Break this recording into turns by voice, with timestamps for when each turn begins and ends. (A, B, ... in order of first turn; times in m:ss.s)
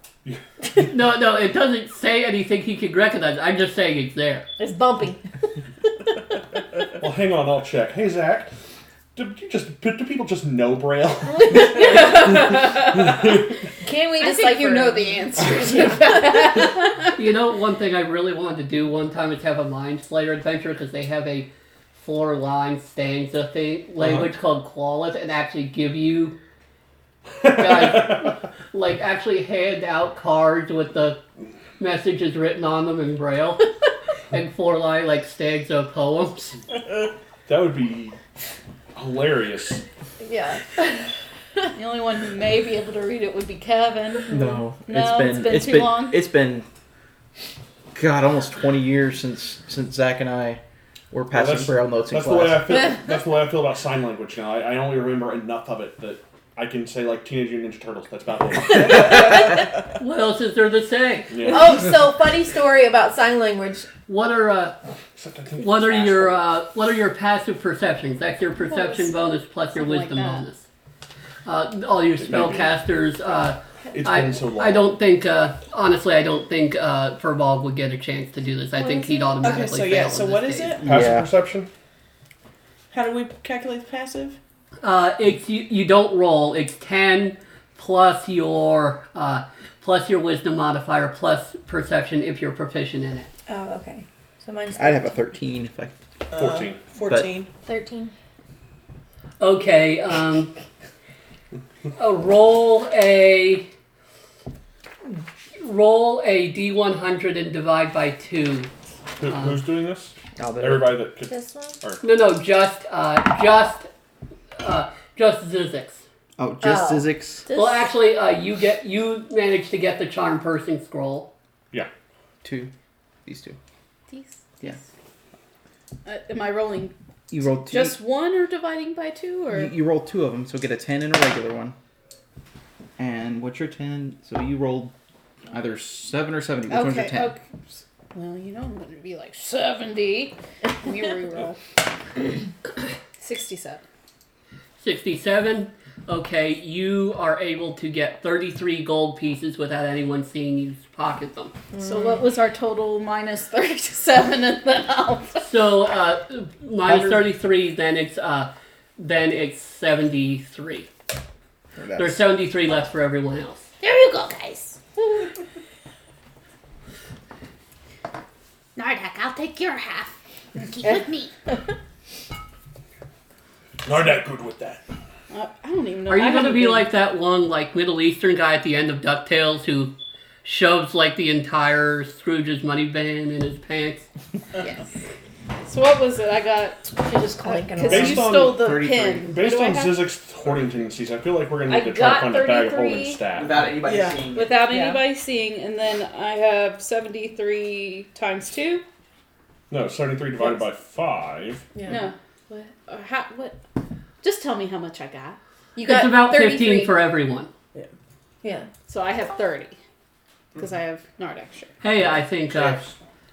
0:00.2-0:00.9 A
0:00.9-0:04.4 B
0:04.6-0:05.2 C
0:07.0-0:08.5 A
0:09.1-0:13.5 A
0:11.4-0:12.1 C
0:11.8-0:13.1 D
0:13.8-0:16.7 C
0:14.2-0:17.0 D
0:17.2-0:26.4 B
0:24.0-0:24.3 A
0:27.4-0:28.4 A
0:27.5-0:31.2 B
0:31.8-0:33.7 B
0:34.3-0:36.6 B
0:37.5-0:38.2 A
0:38.9-0:39.8 A
0:40.2-0:41.6 C
0:41.7-0:46.3 D
0:44.3-0:46.6 E
0:47.9-0:50.6 E
0:51.1-0:52.8 E
0:51.3-0:59.6 A
1:00.0-1:01.5 B
1:01.3-1:01.9 A
1:01.4-1:03.9 C
1:04.1-1:04.8 B
1:05.1-1:06.4 A
1:05.6-1:10.6 B
1:08.6-1:09.1 C
1:09.7-1:10.4 D
1:11.4-1:20.8 B
1:12.2-1:12.8 A
1:13.9-1:14.9 A
1:18.7-1:19.4 C
1:19.4-1:20.8 F
1:20.8-1:21.3 E
1:20.8-1:21.7 A
1:22.9-1:24.4 F
1:24.8-1:33.3 B
1:33.5-1:35.2 C
1:34.7-1:35.9 E
1:36.3-1:37.5 F
1:36.4-1:36.9 A
1:37.6-1:38.1 C
1:39.4-1:40.5 B
1:42.0-1:43.7 B
1:45.0-1:48.7 B
1:49.2-1:52.0 A
1:49.3-1:49.6 B
1:50.4-1:51.1 E
1:51.3-1:51.8 C
1:52.0-1:53.9 B
1:54.6-1:56.0 B
1:56.4-1:57.5 E
1:56.6-1:57.8 C
1:57.5-2:01.3 B
2:02.4-2:02.7 E
2:03.2-2:03.6 E
2:04.1-2:04.8 D
2:06.0-2:06.9 D
2:07.3-2:08.0 E
2:07.5-2:09.7 D
2:09.5-2:11.8 E
2:13.0-2:14.9 E
2:15.5-2:17.4 E
2:16.7-2:17.4 D
2:18.1-2:21.6 D
2:23.2-2:23.8 D
2:24.8-2:31.5 B
2:31.7-2:32.2 C
2:31.8-2:35.4 D
2:35.4-2:40.9 B
2:36.9-2:37.2 E
2:41.8-2:42.2 E
2:42.0-2:43.6 B
2:43.8-2:44.8 G
2:48.8-2:51.3 G
2:53.8-2:54.8 A
2:55.3-2:56.9 D
2:56.1-2:59.9 B
3:00.4-3:04.1 B
3:05.6-3:06.8 D
3:07.0-3:08.2 C
3:07.5-3:10.0 D
3:07.8-3:13.7 A
3:08.5-3:09.4 E
3:11.7-3:13.2 D
3:13.3-3:14.6 E
3:13.8-3:14.2 F
3:14.3-3:18.8 D
3:14.7-3:15.0 C
3:19.7-3:21.6 A
3:21.7-3:22.0 C
3:21.9-3:23.6 D
3:24.2-3:25.4 D
3:25.8-3:26.9 C
3:25.8-3:27.5 B
3:28.4-3:28.7 C
3:28.9-3:29.8 D
3:30.6-3:31.7 D
3:31.8-3:32.8 B
3:32.5-3:32.9 E